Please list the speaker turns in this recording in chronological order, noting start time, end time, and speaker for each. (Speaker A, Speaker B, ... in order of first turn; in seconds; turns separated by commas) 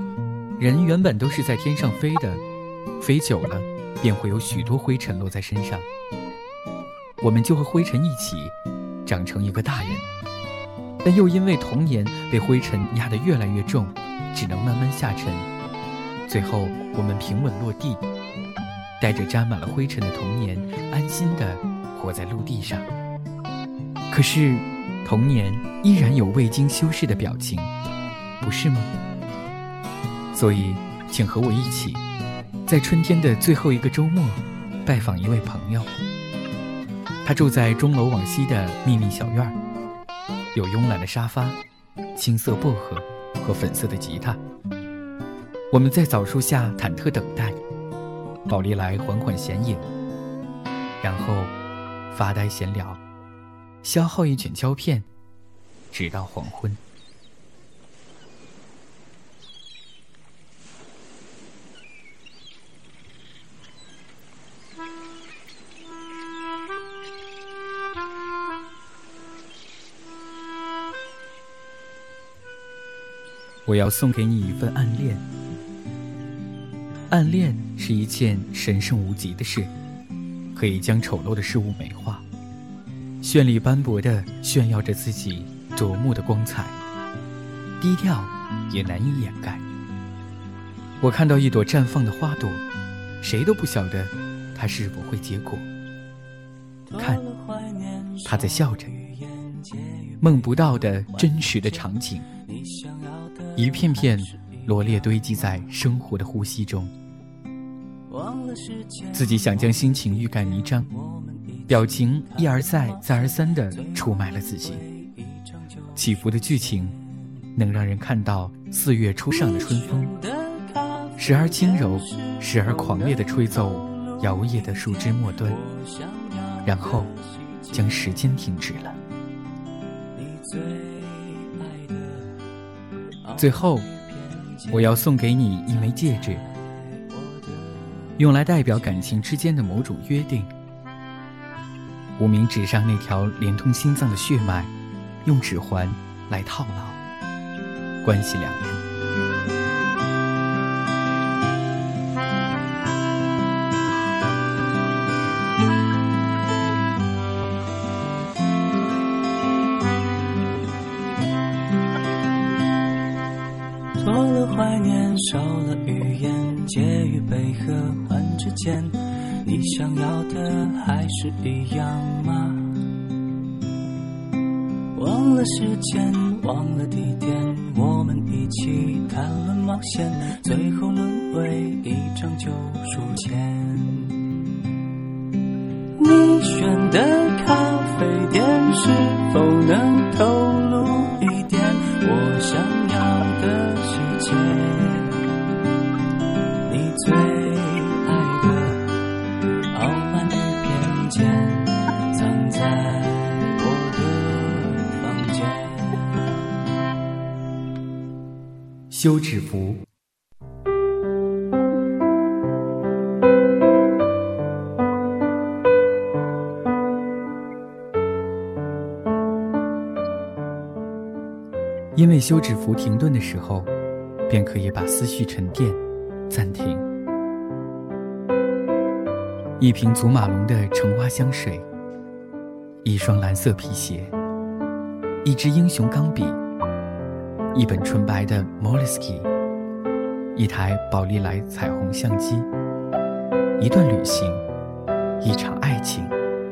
Speaker A: 0.6-2.4, Speaker A: 3.0-5.9, Speaker A: 7.2-10.1, Speaker A: 11.0-15.5, Speaker A: 16.3-18.0, Speaker A: 19.0-22.9, Speaker A: 24.1-27.7, Speaker A: 28.4-28.9, Speaker A: 30.3-32.0, Speaker A: 32.6-36.0, Speaker A: 37.2-39.6, Speaker A: 40.5-41.6, Speaker A: 42.1-44.4, Speaker A: 45.7-47.6, Speaker A: 48.5-49.9, Speaker A: 51.0-51.5, Speaker A: 52.1-53.0, Speaker A: 53.8-55.1, Speaker A: 55.9-56.8, Speaker A: 73.7-75.2, Speaker A: 77.1-79.7, Speaker A: 80.5-82.2, Speaker A: 83.2-86.8, Speaker A: 87.8-89.6, Speaker A: 91.0-92.6, Speaker A: 93.2-95.7, Speaker B: 96.9-105.2, Speaker A: 96.9-97.2, Speaker A: 98.2-98.9, Speaker A: 100.2-102.3, Speaker A: 103.5-106.9, Speaker B: 108.1-115.9, Speaker A: 109.1-110.9, Speaker A: 111.7-114.9, Speaker A: 115.9-117.0, Speaker A: 117.5-120.2, Speaker B: 119.5-127.7, Speaker A: 121.2-125.6, Speaker A: 126.6-127.1, Speaker A: 127.7-129.0, Speaker B: 130.1-132.4, Speaker B: 133.2-134.7, Speaker A: 133.4-133.9, Speaker A: 134.7-136.4, Speaker B: 135.9-138.2, Speaker A: 138.2-140.5, Speaker A: 142.2-144.7, Speaker A: 145.2-147.0, Speaker A: 148.0-148.8, Speaker B: 163.9-173.0, Speaker B: 174.9-184.4, Speaker B: 185.9-195.3, Speaker B: 196.6-199.0, Speaker B: 199.7-206.4, Speaker A: 208.9-209.8, Speaker A: 221.9-223.7, Speaker A: 224.3-226.8, Speaker A: 229.6-231.7, Speaker A: 232.8-234.1, Speaker A: 235.2-236.4, Speaker A: 237.5-239.3, Speaker A: 240.3-242.5, Speaker A: 243.6-244.4, Speaker A: 245.2-246.1